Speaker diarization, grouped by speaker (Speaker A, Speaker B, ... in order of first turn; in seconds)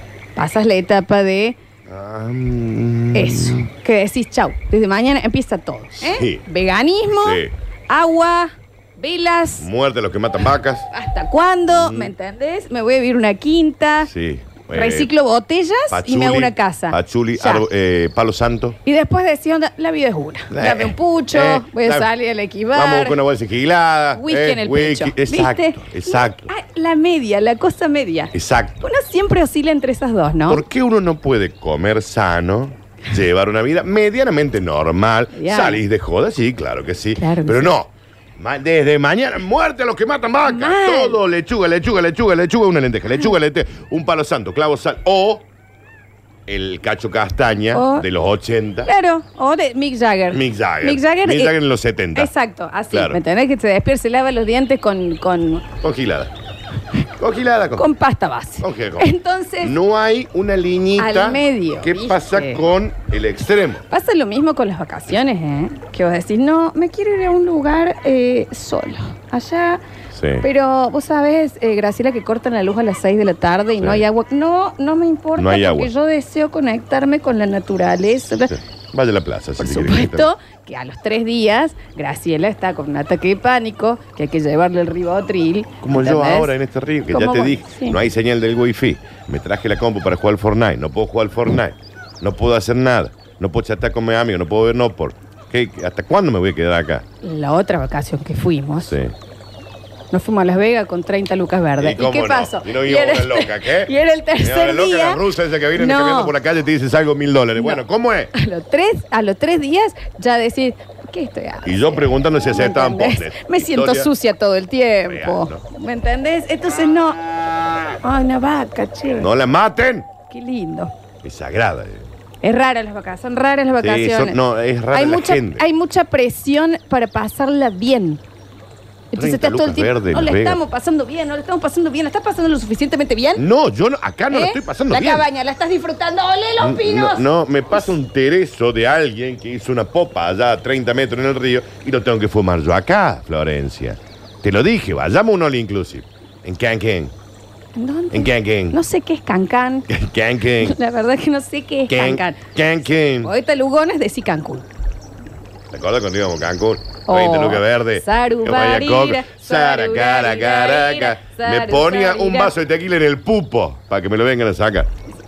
Speaker A: 0.3-1.6, 3.1-9.7, 10.9-14.1, 14.7-17.6, 18.8-23.2, 24.1-30.6, 35.3-35.8, 37.1-37.7, 40.4-41.2, 47.7-48.0, 48.9-51.5, 52.1-55.6, 57.8-59.7, 61.0-62.6, 63.9-69.8, 70.4-78.5, 79.6-86.5, 87.1-88.0, 97.2-98.9, 100.1-105.2, 105.8-106.3, 107.5-107.8, 108.3-117.2, 118.0-119.3, 120.3-120.9, 122.4-124.4, 124.9-128.2, 129.1-133.4, 134.3-137.9, 147.8-149.9, 150.6-152.4, 153.2-154.7, 157.1-162.5
Speaker B: 1.9-3.7, 6.0-6.4, 7.2-7.5, 9.6-10.9, 11.7-12.1, 14.0-15.1, 15.9-18.8, 20.5-22.1, 22.7-26.5, 28.3-28.8, 30.5-45.4, 46.5-48.9, 50.3-52.3, 52.9-53.2, 55.8-56.3, 57.2-57.9, 58.6-59.1, 59.6-63.8, 70.1-70.4, 73.8-74.0, 75.4-75.9, 78.5-80.3, 85.8-97.0, 98.8-99.1, 101.8-108.3, 111.6-114.1, 115.1-115.6, 119.2-120.1, 121.2-122.0, 123.8-125.6, 129.2-130.6, 133.4-135.2, 136.6-147.1, 148.1-148.8, 149.9-150.7, 151.9-153.3, 155.7-164.9